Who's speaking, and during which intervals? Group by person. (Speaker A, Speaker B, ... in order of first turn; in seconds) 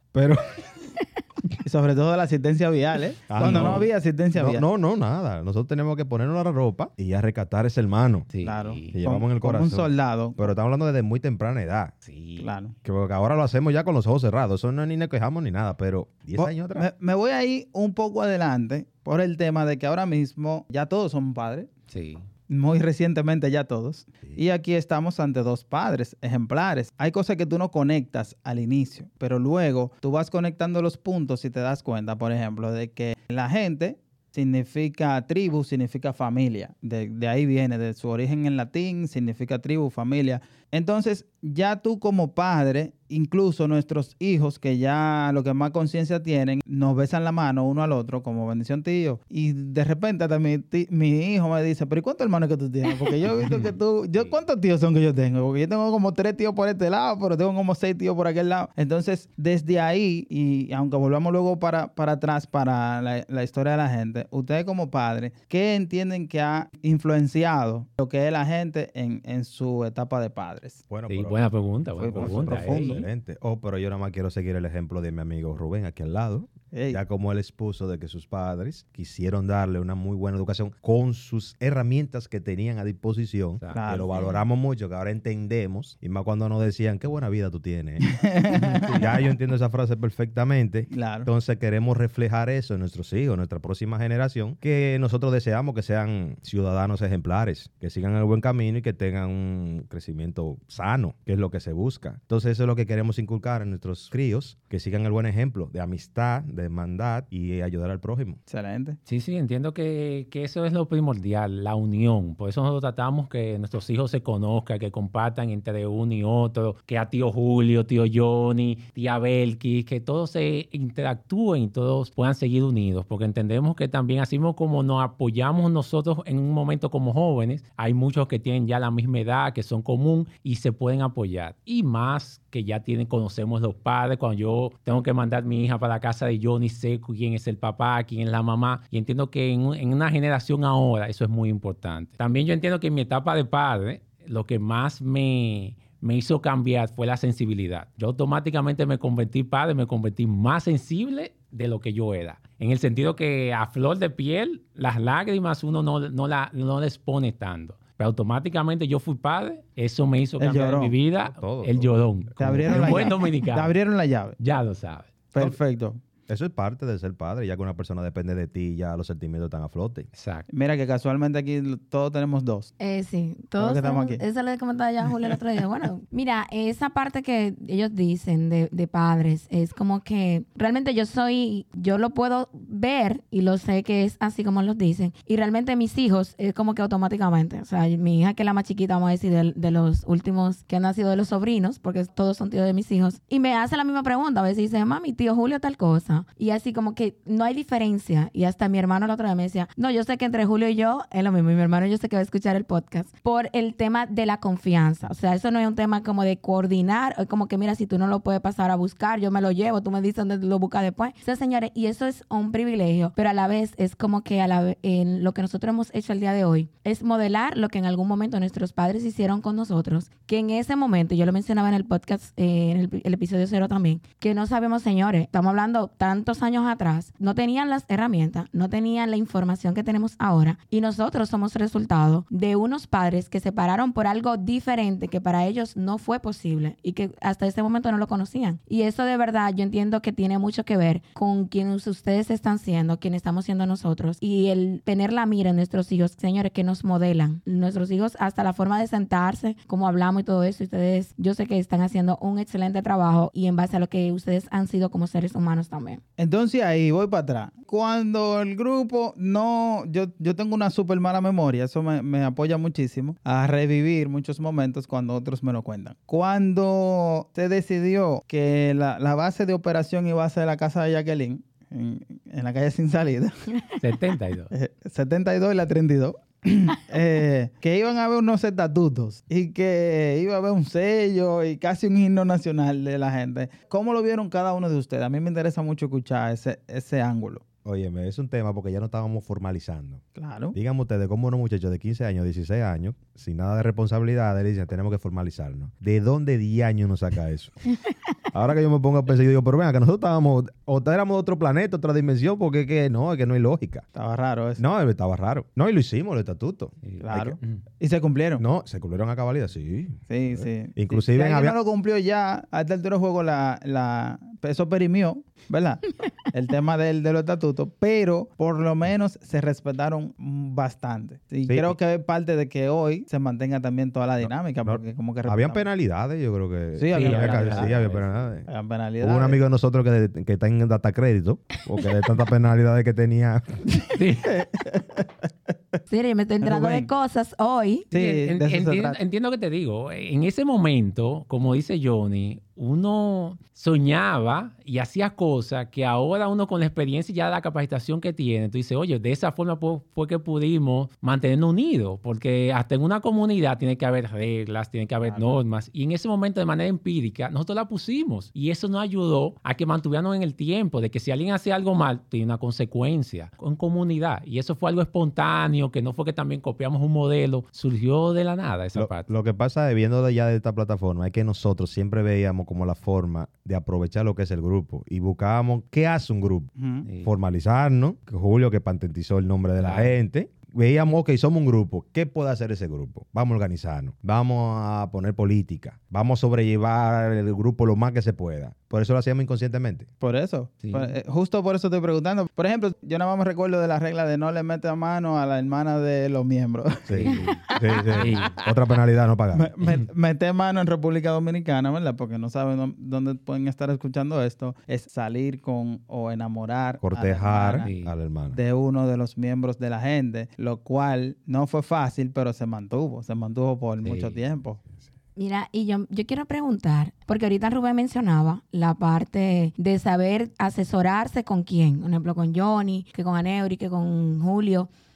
Speaker A: 0.1-0.6, 3.3-8.3, 8.9-11.9, 12.8-16.9, 70.9-71.4, 72.0-108.4, 161.2-163.1, 166.3-170.1, 287.6-290.0, 290.5-297.7, 298.3-303.9, 304.6-307.4, 308.4-311.6, 321.5-321.8, 324.2-328.5, 329.0-333.7, 368.8-376.5, 377.0-389.9, 396.9-399.5, 406.8-408.4
Speaker B: 1.6-4.6, 8.4-10.5, 12.4-12.7, 16.4-21.7, 22.5-70.8, 72.0-73.0, 76.7-77.0, 83.8-84.2, 88.1-89.1, 90.9-91.3, 108.5-109.0, 160.4-160.9, 162.4-164.4, 165.3-166.0, 170.5-172.7, 173.6-174.2, 256.2-273.3, 274.5-287.4, 290.2-290.6, 303.9-304.6, 307.0-308.4, 310.1-325.6, 326.8-329.4, 334.2-335.1, 336.4-336.9, 337.9-339.0, 355.0-355.4, 376.6-376.9, 390.0-398.1, 399.3-407.7, 408.3-414.6
Speaker C: 3.4-3.9, 8.3-8.9, 12.1-12.5, 21.9-22.2, 53.3-54.3, 71.1-73.1, 109.1-163.7, 164.4-165.1, 170.2-170.5, 273.8-274.5, 306.8-307.6, 326.9-328.3, 333.9-334.3, 337.9-369.1, 376.9-377.1, 379.6-379.9, 390.6-390.9, 397.0-398.4, 399.6-399.9, 407.6-407.9, 413.8-414.2
Speaker D: 172.8-256.0, 335.9-337.9, 415.2-424.7